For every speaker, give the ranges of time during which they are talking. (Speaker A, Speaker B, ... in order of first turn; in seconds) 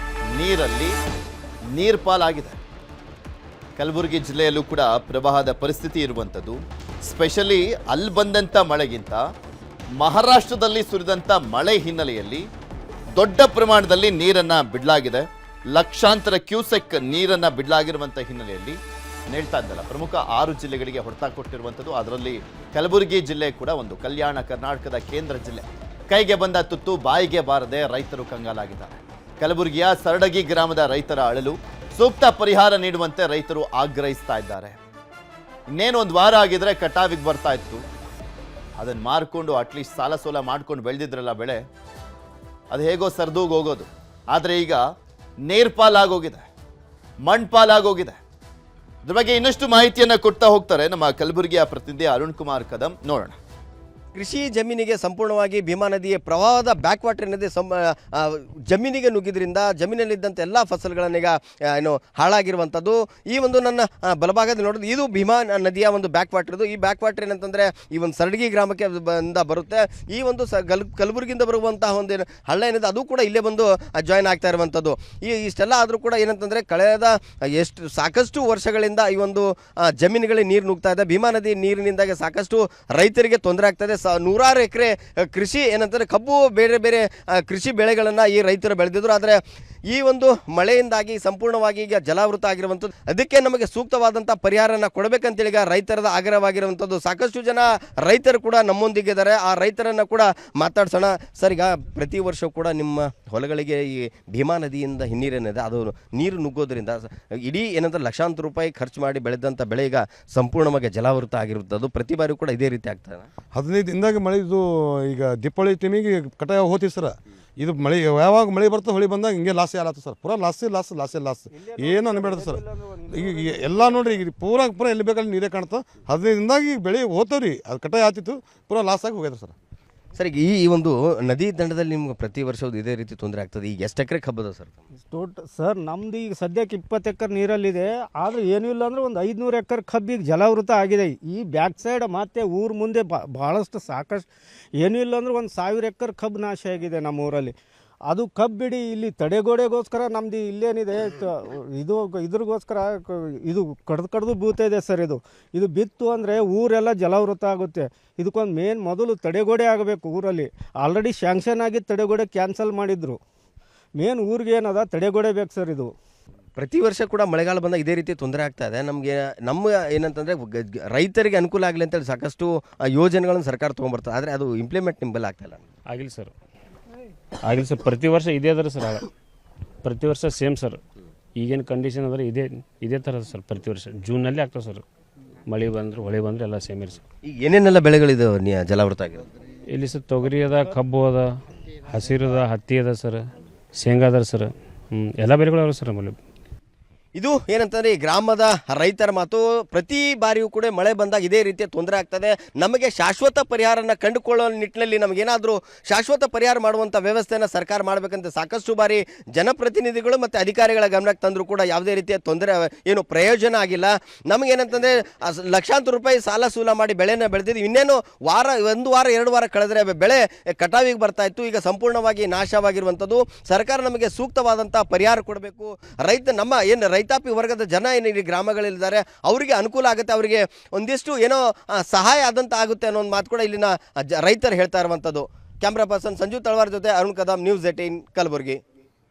Speaker A: 0.3-1.0, 1.7-2.6, 3.8-9.2, 10.0-12.5, 13.2-18.8, 19.3-34.8, 35.7-37.8, 38.8-41.6, 42.7-44.8, 45.5-46.4, 47.3-48.2, 49.0-53.4
Speaker B: 54.1-113.3, 130.2-134.8, 166.6-175.6, 187.3-189.2, 197.2-238.6
Speaker C: 113.5-129.5
Speaker D: 121.5-124.2, 135.1-147.6, 148.1-163.2, 164.0-165.9
Speaker E: 175.9-176.3, 177.5-179.1, 179.8-180.8, 181.4-184.8, 185.5-187.0, 189.7-191.3, 191.9-196.2